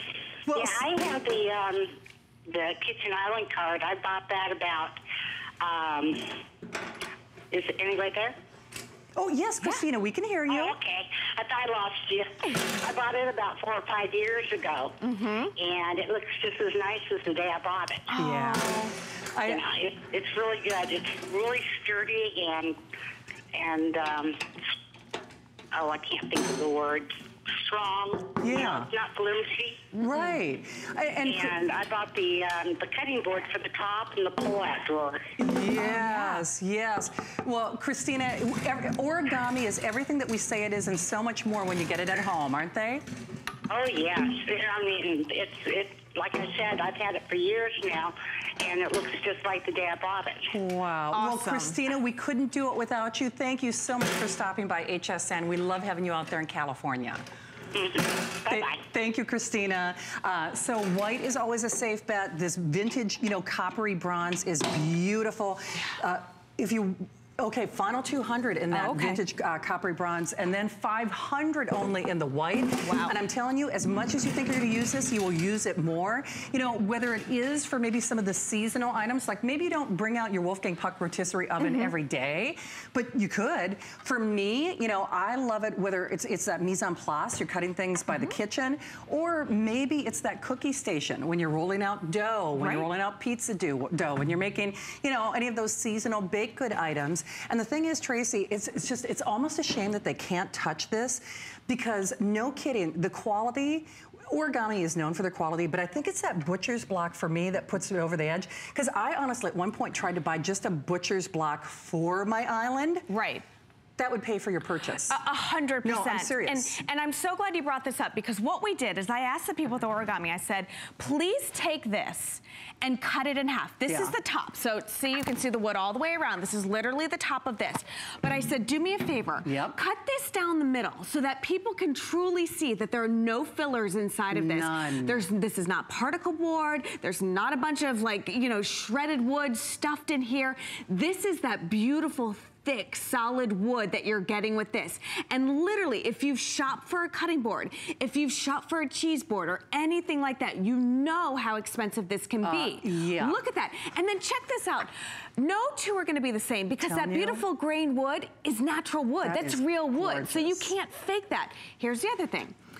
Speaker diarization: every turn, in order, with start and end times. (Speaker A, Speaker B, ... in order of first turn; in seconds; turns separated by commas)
Speaker A: 0.5-0.8, Speaker B: 0.5-1.9, Speaker B: 2.5-5.0, Speaker B: 5.6-6.4, Speaker B: 7.5-8.4, Speaker A: 9.2-10.8, Speaker B: 10.5-15.0, Speaker C: 15.0-15.6, Speaker B: 15.6-18.1, Speaker C: 18.1-18.9, Speaker A: 18.1-19.6, Speaker B: 19.4-22.8, Speaker B: 23.6-24.4, Speaker B: 25.7-29.9, Speaker A: 28.4-28.9, Speaker A: 30.0-31.5, Speaker C: 30.0-30.4, Speaker B: 31.3-35.2, Speaker A: 35.4-43.0, Speaker C: 35.8-36.5, Speaker B: 43.7-50.5, Speaker A: 50.5-57.2, Speaker C: 51.1-51.8, Speaker B: 57.7-58.8, Speaker A: 58.5-113.1, Speaker C: 68.7-69.2, Speaker C: 72.8-73.2, Speaker C: 81.6-81.9, Speaker C: 88.1-88.4, Speaker C: 92.6-92.9, Speaker C: 113.1-113.4, Speaker A: 114.0-115.2, Speaker C: 115.1-162.6, Speaker A: 115.8-116.8, Speaker A: 123.9-124.2, Speaker A: 129.4-129.8, Speaker A: 134.3-135.2, Speaker A: 152.4-153.4, Speaker A: 156.8-157.4, Speaker A: 159.2-160.7